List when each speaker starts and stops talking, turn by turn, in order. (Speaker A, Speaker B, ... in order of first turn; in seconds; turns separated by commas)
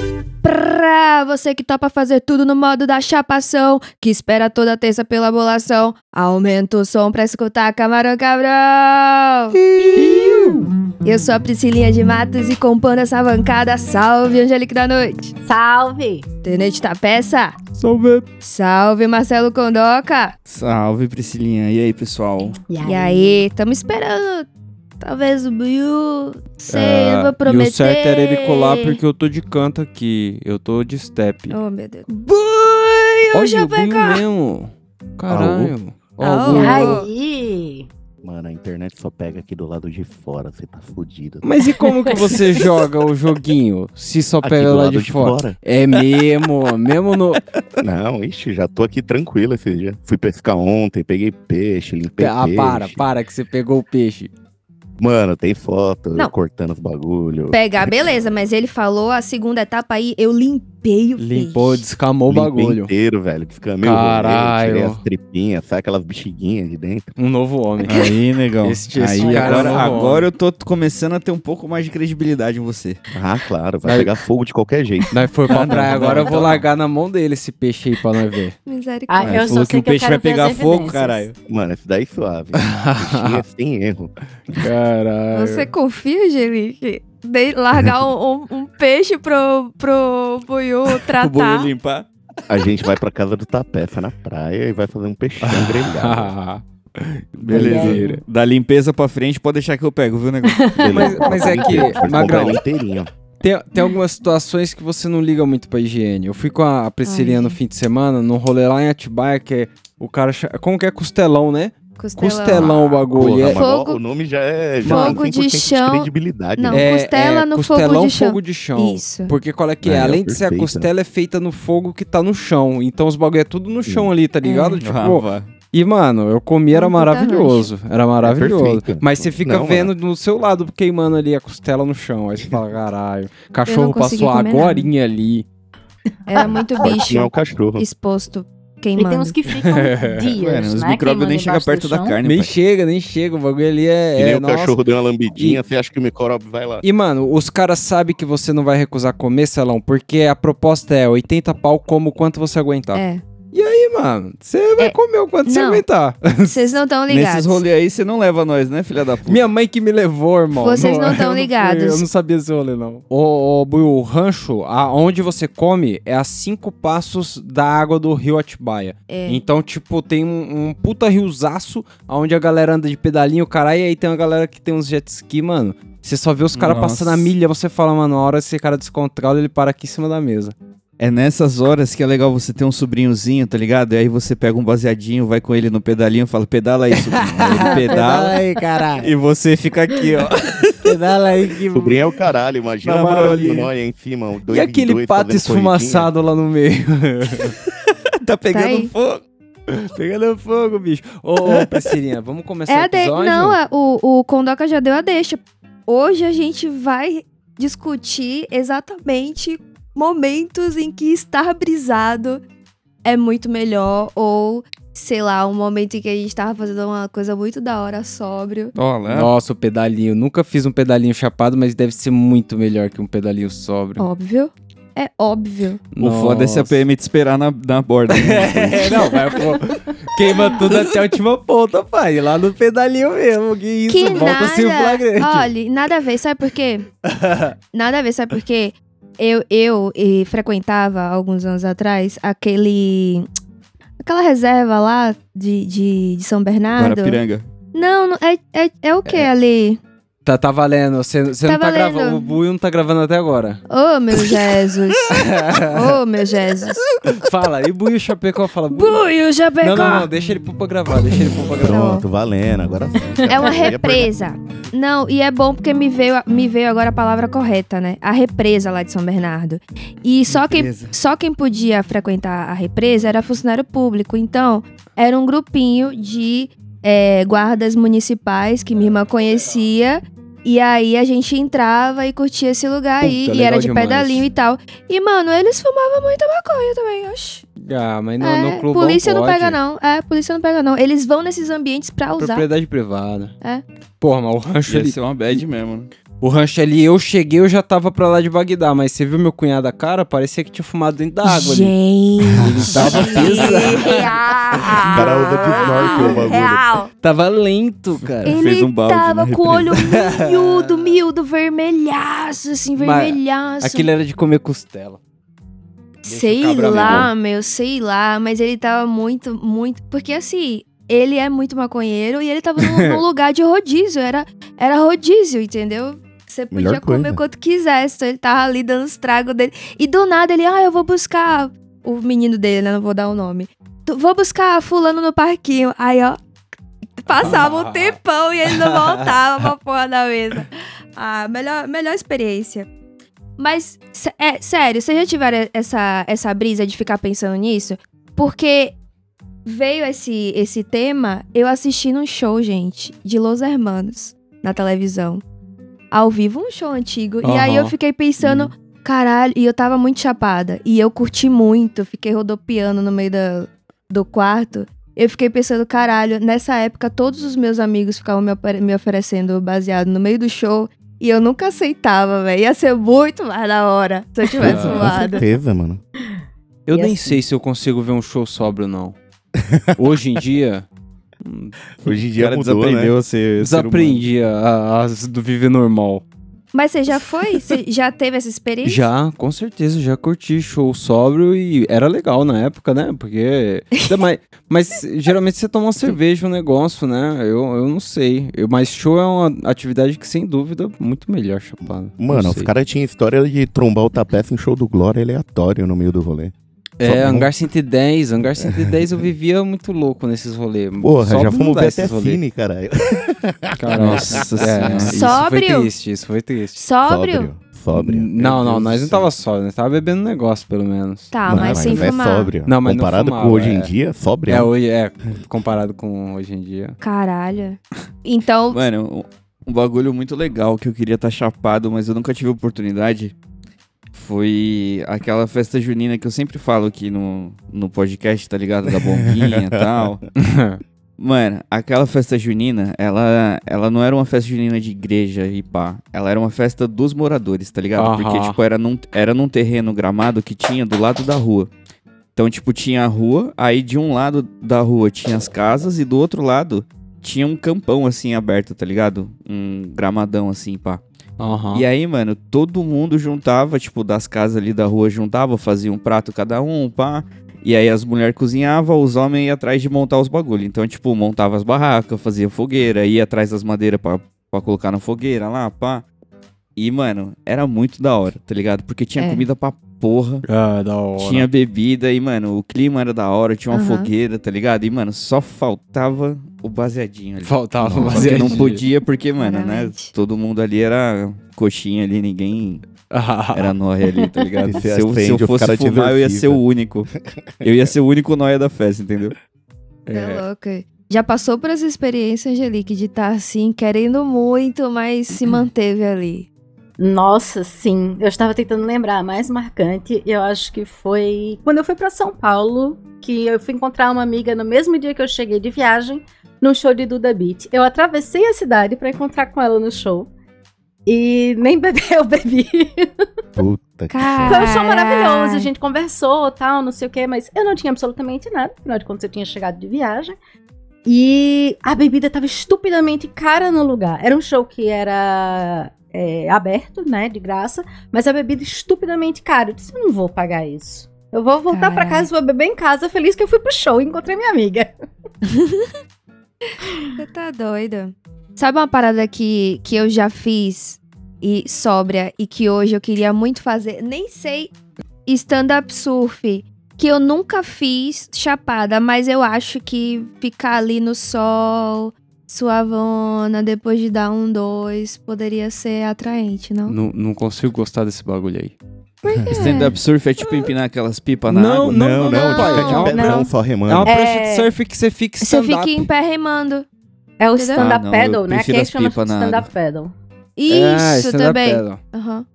Speaker A: 0.4-10.4, Speaker B: 9.6-10.7, Speaker C: 9.8-10.6, Speaker A: 11.0-15.3, Speaker C: 15.4-16.3, Speaker A: 16.4-17.6, Speaker B: 17.8-18.2, Speaker A: 18.4-20.4, Speaker D: 20.5-22.6, Speaker C: 22.7-23.4, Speaker A: 22.8-24.5, Speaker A: 25.0-29.0, Speaker B: 26.7-31.6, Speaker A: 31.5-34.2, Speaker B: 33.3-37.0, Speaker E: 35.3-35.7, Speaker A: 36.2-37.1, Speaker C: 36.5-37.9, Speaker E: 38.2-41.5, Speaker B: 41.4-47.4, Speaker E: 44.4-45.6, Speaker E: 47.8-53.0, Speaker B: 52.2-54.3, Speaker E: 55.0-57.6, Speaker A: 57.5-61.9, Speaker B: 61.2-62.9, Speaker E: 62.3-67.1, Speaker B: 63.8-65.0, Speaker B: 67.2-70.3, Speaker D: 67.8-73.0, Speaker C: 69.2-69.9, Speaker E: 73.1-75.1, Speaker B: 73.8-74.2, Speaker B: 75.1-78.6, Speaker D: 75.5-76.7, Speaker E: 75.7-76.0, Speaker A: 78.7-79.5, Speaker C: 79.1-81.2, Speaker D: 79.2-81.3, Speaker E: 81.5-84.1, Speaker B: 82.6-83.4, Speaker B: 84.5-85.7, Speaker A: 85.3-91.7, Speaker D: 91.1-92.1, Speaker E: 92.5-96.3, Speaker B: 95.4-98.2, Speaker D: 97.4-101.2, Speaker E: 97.5-98.0, Speaker A: 97.5-98.1, Speaker C: 100.5-101.9, Speaker E: 100.8-103.1, Speaker B: 100.9-102.6, Speaker B: 103.4-113.6, Speaker A: 107.0-107.6, Speaker A: 112.0-112.7, Speaker E: 113.1-116.9, Speaker A: 113.5-114.0, Speaker B: 114.8-115.3, Speaker A: 114.8-119.3, Speaker B: 116.7-135.5, Speaker E: 119.8-120.9, Speaker E: 123.9-124.1, Speaker A: 124.4-124.8, Speaker D: 124.8-125.5, Speaker A: 126.7-127.7, Speaker E: 128.2-129.9, Speaker A: 133.7-134.9, Speaker A: 136.3-139.4, Speaker C: 136.4-136.9, Speaker E: 136.8-137.8, Speaker C: 138.9-142.2, Speaker B: 139.7-140.2, Speaker D: 140.3-142.5, Speaker B: 142.2-144.8, Speaker E: 144.2-146.8, Speaker B: 145.3-145.6, Speaker B: 146.8-156.8, Speaker A: 152.9-153.2, Speaker A: 154.8-155.9, Speaker A: 156.5-157.6, Speaker D: 157.1-159.4, Speaker B: 159.3-180.6, Speaker A: 160.5-162.1, Speaker A: 169.1-169.4, Speaker D: 176.5-177.3, Speaker D: 181.0-188.4, Speaker B: 187.1-189.1, Speaker D: 189.0-191.0, Speaker B: 190.8-192.0, Speaker E: 191.7-196.1, Speaker D: 192.8-193.7, Speaker B: 194.5-197.6, Speaker D: 198.2-199.2, Speaker A: 198.5-198.9, Speaker B: 199.7-203.6, Speaker D: 201.4-201.9, Speaker A: 202.7-212.4, Speaker A: 213.0-218.7, Speaker D: 218.8-219.3, Speaker B: 219.1-224.1, Speaker A: 224.0-225.8, Speaker B: 225.9-226.8, Speaker D: 226.0-229.4, Speaker B: 228.1-235.5, Speaker A: 233.9-236.9, Speaker B: 237.1-237.5, Speaker A: 237.7-243.3, Speaker A: 244.0-247.2, Speaker D: 246.8-247.4, Speaker A: 247.7-249.8, Speaker B: 250.2-253.6, Speaker A: 251.4-252.4, Speaker A: 253.7-256.9, Speaker B: 255.1-256.0, Speaker B: 257.2-259.1, Speaker A: 258.7-260.1, Speaker B: 259.6-261.9, Speaker E: 261.5-264.1, Speaker A: 261.6-262.1, Speaker A: 263.3-287.5, Speaker D: 270.3-270.9, Speaker B: 283.0-284.3, Speaker B: 287.6-289.6, Speaker A: 288.2-292.5, Speaker B: 292.2-293.4, Speaker B: 294.0-295.0, Speaker D: 294.7-295.9, Speaker B: 296.2-301.7, Speaker A: 301.3-306.9, Speaker B: 302.3-306.3, Speaker E: 302.4-303.6, Speaker E: 304.8-306.7, Speaker D: 305.0-305.3, Speaker B: 307.0-308.4, Speaker D: 308.2-309.9, Speaker A: 308.2-313.9, Speaker B: 309.8-310.9, Speaker B: 312.8-315.0, Speaker A: 316.0-336.2, Speaker B: 316.1-317.1, Speaker E: 316.6-317.1, Speaker B: 322.6-323.0, Speaker E: 326.5-327.2, Speaker A: 337.0-342.7, Speaker B: 337.1-339.2, Speaker A: 343.4-348.8, Speaker A: 349.4-355.2, Speaker A: 355.9-375.2, Speaker B: 357.2-358.5, Speaker E: 374.4-375.8, Speaker B: 374.4-374.9, Speaker B: 376.7-379.0, Speaker A: 376.8-377.1, Speaker E: 379.4-379.7, Speaker B: 379.8-380.7, Speaker B: 381.2-381.6, Speaker E: 381.8-382.9, Speaker D: 382.2-384.0, Speaker B: 383.4-386.0, Speaker A: 386.5-388.9, Speaker B: 388.6-402.5, Speaker E: 402.0-407.3, Speaker B: 406.8-412.2, Speaker E: 408.4-409.1, Speaker E: 410.8-415.0, Speaker B: 413.6-416.6, Speaker D: 413.7-415.0, Speaker A: 414.9-415.7, Speaker A: 416.6-417.3, Speaker E: 416.8-419.1, Speaker B: 417.7-423.7, Speaker A: 421.1-422.3, Speaker E: 421.3-424.5, Speaker B: 424.3-426.8, Speaker A: 426.8-428.6, Speaker D: 428.5-433.1, Speaker D: 433.9-440.1, Speaker E: 438.7-439.4, Speaker B: 440.2-440.6, Speaker D: 441.0-451.5, Speaker B: 447.8-448.4, Speaker D: 452.2-460.8, Speaker B: 461.2-461.6, Speaker D: 461.5-475.9, Speaker D: 476.6-480.3, Speaker A: 479.0-479.2, Speaker B: 480.3-481.3, Speaker D: 481.0-492.6, Speaker A: 483.5-483.9, Speaker B: 487.2-488.6, Speaker E: 487.7-488.4, Speaker A: 489.2-489.9, Speaker B: 492.9-493.5, Speaker D: 493.3-496.9, Speaker E: 494.5-496.4, Speaker D: 497.4-499.1, Speaker B: 499.9-500.2, Speaker A: 499.9-506.3, Speaker C: 506.8-520.1, Speaker C: 520.9-522.9, Speaker E: 523.4-524.6, Speaker A: 523.9-525.5, Speaker C: 524.2-530.2, Speaker C: 530.9-544.7, Speaker A: 541.5-542.1, Speaker A: 545.2-545.7, Speaker C: 546.7-546.9, Speaker A: 547.0-554.5, Speaker A: 555.1-566.8, Speaker B: 566.7-568.6, Speaker A: 569.0-569.8, Speaker E: 569.1-569.7, Speaker D: 569.3-571.9, Speaker B: 571.3-575.9, Speaker E: 571.6-574.0, Speaker A: 572.0-573.3, Speaker C: 573.9-574.5, Speaker A: 575.2-576.7, Speaker C: 577.2-579.9, Speaker A: 577.3-577.6, Speaker D: 577.6-579.5, Speaker A: 580.4-582.2, Speaker B: 580.5-581.8